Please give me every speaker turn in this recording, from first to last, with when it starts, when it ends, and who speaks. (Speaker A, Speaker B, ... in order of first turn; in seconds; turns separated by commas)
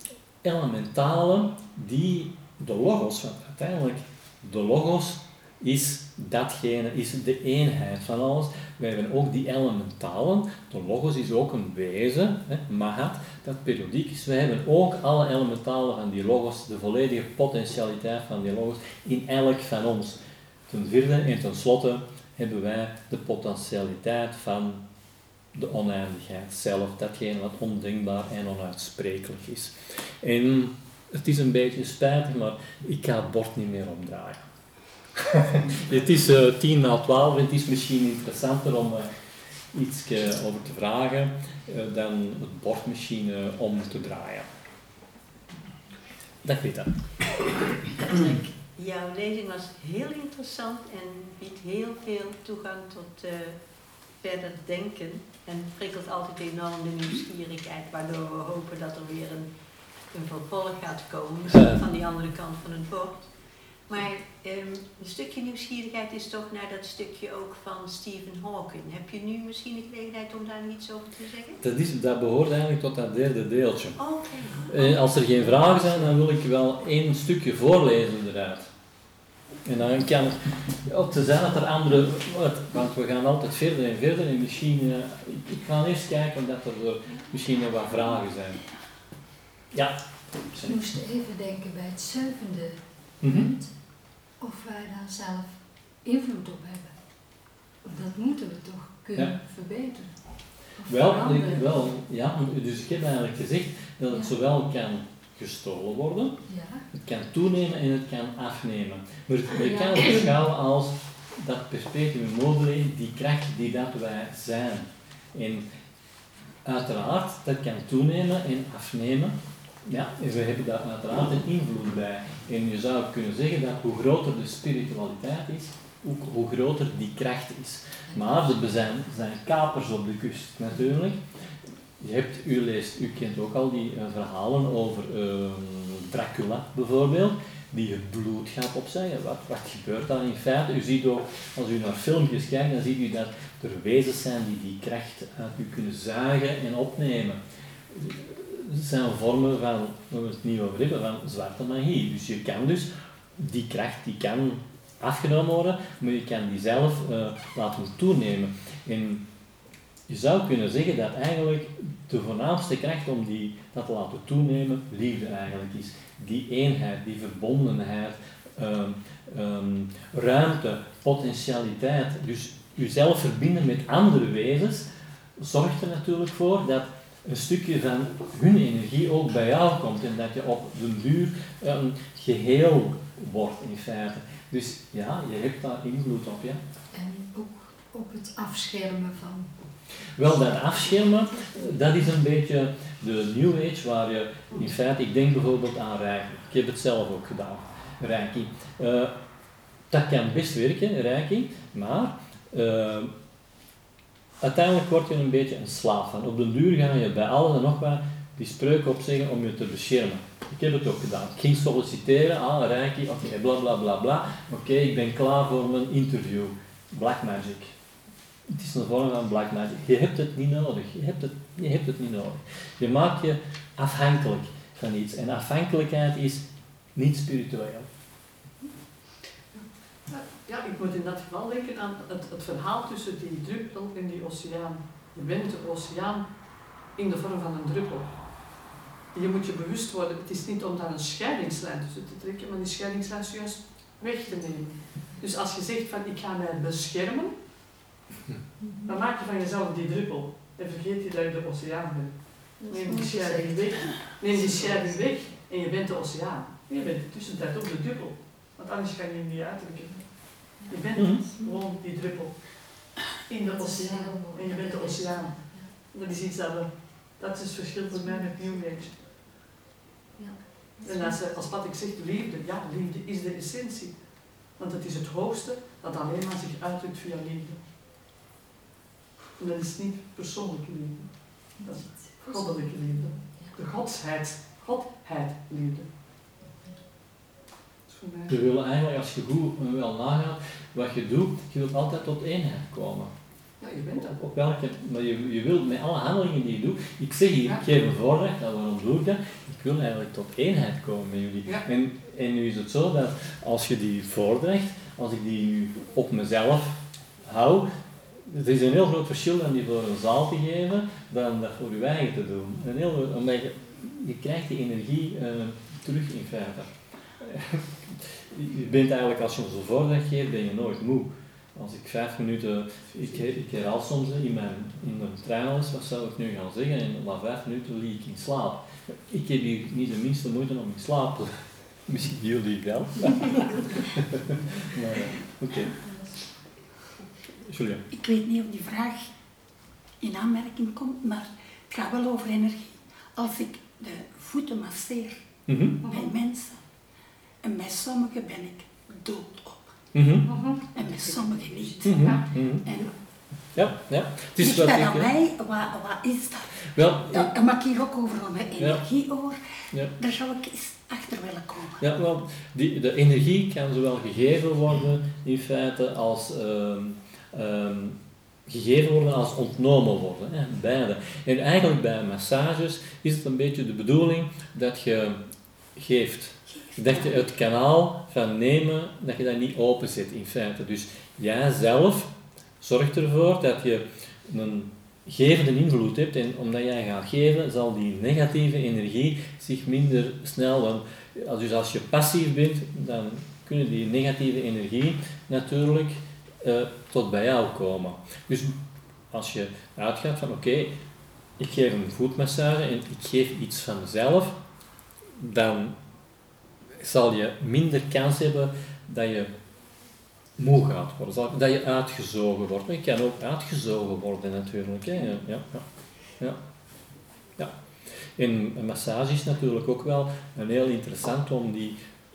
Speaker A: 0.4-24.8, Speaker A: 25.5-34.4, Speaker A: 35.2-39.1, Speaker A: 39.7-44.5, Speaker A: 46.4-46.9, Speaker B: 48.0-53.6, Speaker B: 54.2-59.5, Speaker B: 60.1-63.2, Speaker A: 61.5-61.8, Speaker B: 63.9-71.6, Speaker A: 71.6-74.0, Speaker B: 74.0-75.2, Speaker A: 74.7-78.7, Speaker A: 79.6-88.7, Speaker A: 89.7-90.8, Speaker C: 90.6-93.7, Speaker A: 93.2-93.5, Speaker C: 94.4-96.9, Speaker C: 97.8-100.1, Speaker C: 100.8-101.7, Speaker A: 100.8-106.4, Speaker C: 106.5-106.8, Speaker A: 106.9-115.7, Speaker C: 109.6-110.3, Speaker A: 116.6-131.2, Speaker C: 128.1-128.5, Speaker A: 132.0-147.4, Speaker A: 147.9-159.3, Speaker A: 160.1-186.6, Speaker C: 186.9-189.5, Speaker A: 190.2-199.2, Speaker A: 199.9-203.1, Speaker A: 204.4-217.7, Speaker A: 218.5-227.9, Speaker D: 229.6-236.2, Speaker D: 236.9-238.1, Speaker D: 239.1-247.3, Speaker C: 248.6-248.9, Speaker D: 248.9-268.9, Speaker B: 252.6-253.6, Speaker C: 260.7-261.5, Speaker A: 260.9-261.2, Speaker C: 263.4-265.8, Speaker C: 270.2-271.2, Speaker D: 270.8-277.6, Speaker D: 279.4-285.9, Speaker C: 281.6-283.5, Speaker D: 287.9-288.4, Speaker A: 288.3-293.1, Speaker D: 293.6-294.2, Speaker A: 294.0-307.7, Speaker A: 308.2-331.3, Speaker A: 331.9-335.8, Speaker C: 335.8-336.1, Speaker A: 337.4-337.8, Speaker E: 337.9-339.1, Speaker E: 340.0-345.2, Speaker A: 345.5-345.8, Speaker D: 345.8-346.1, Speaker E: 345.9-346.6, Speaker E: 347.4-349.6, Speaker A: 349.9-350.3, Speaker D: 350.2-350.6, Speaker E: 350.6-352.9, Speaker A: 351.8-352.7, Speaker A: 353.5-355.1, Speaker E: 354.4-356.5, Speaker A: 356.7-357.3, Speaker E: 357.1-359.4, Speaker A: 358.6-358.8, Speaker E: 360.0-361.8, Speaker A: 361.8-375.2, Speaker A: 375.8-398.6, Speaker E: 376.6-377.1, Speaker A: 399.1-400.8, Speaker A: 401.4-404.4, Speaker A: 405.1-405.8, Speaker A: 406.8-409.3, Speaker A: 410.4-415.6, Speaker A: 418.1-421.8